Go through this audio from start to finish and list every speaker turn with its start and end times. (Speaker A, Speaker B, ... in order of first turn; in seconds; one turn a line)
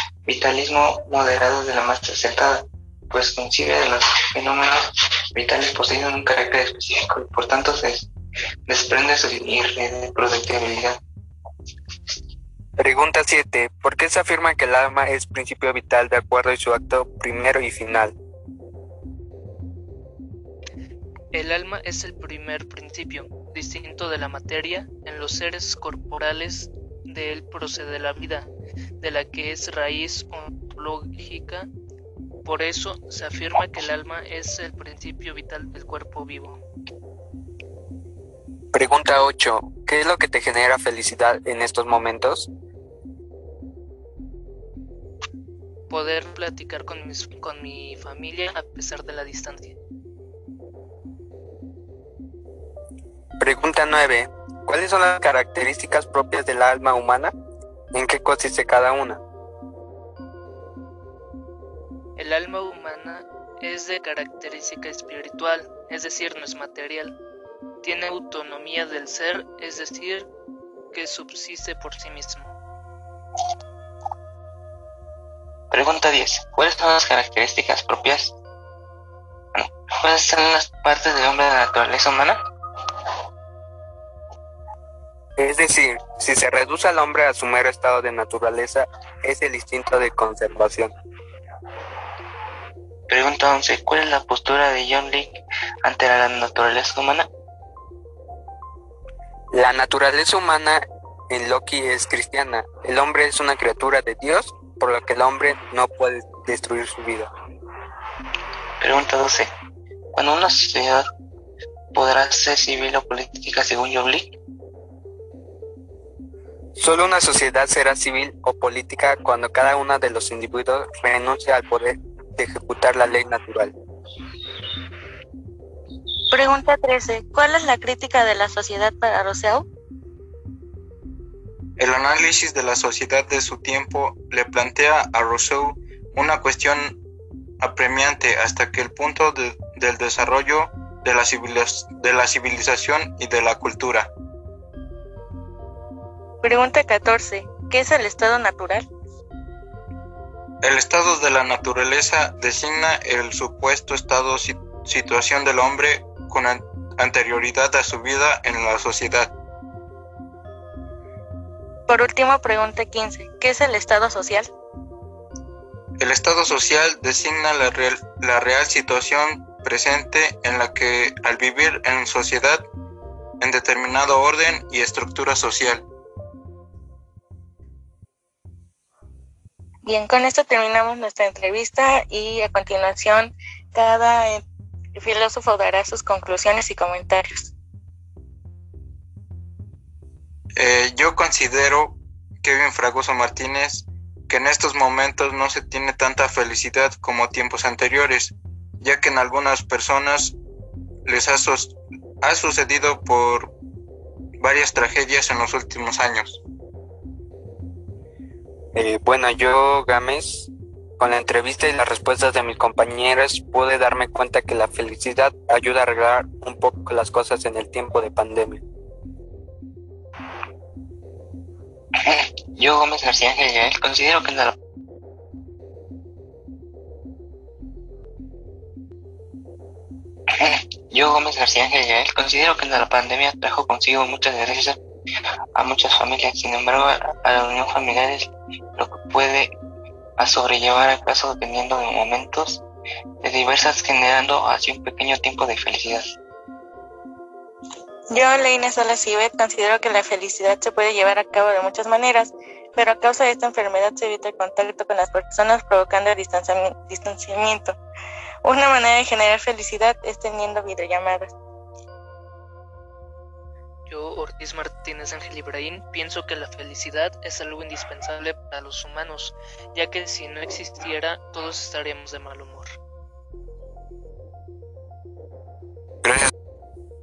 Speaker A: 0.2-8.1
Speaker A: 8.7-11.0
Speaker B: 12.8-18.1
Speaker C: 21.3-28.5
Speaker C: 29.0-31.7
Speaker C: 32.4-36.6
Speaker B: 38.7-42.5
Speaker C: 45.9-49.8
Speaker B: 53.4-57.3
Speaker B: 57.9-59.2
Speaker C: 62.2-67.1
Speaker C: 67.8-70.3
Speaker C: 70.9-72.5
Speaker A: 75.7-78.3
Speaker A: 79.5-82.4
Speaker B: 85.4-90.9
Speaker A: 93.1-95.3
Speaker A: 95.8-97.3
Speaker B: 99.5-107.3
Speaker A: 108.8-109.5
Speaker A: 110.1-111.1
Speaker A: 111.9-114.3
Speaker B: 116.8-123.7
Speaker D: 126.3-129.7
Speaker E: 131.8-137.0
Speaker E: 137.6-144.1
Speaker D: 146.4-148.8
Speaker E: 150.6-159.3
Speaker D: 161.9-164.5
Speaker E: 166.0-172.7
Speaker E: 173.4-175.8
Speaker D: 179.8-184.4
Speaker D: 184.9-187.5
Speaker E: 190.6-200.3
Speaker E: 201.1-203.5
Speaker E: 204.4-206.4
Speaker B: 208.7-218.6
Speaker A: 222.0-224.6
Speaker A: 230.3-234.8
Speaker A: 235.6-239.5
Speaker A: 240.2-242.6
Speaker A: 243.2-246.1
Speaker D: 248.1-257.8
Speaker D: 258.4-261.3
Speaker C: 263.9-272.8
Speaker E: 276.0-276.3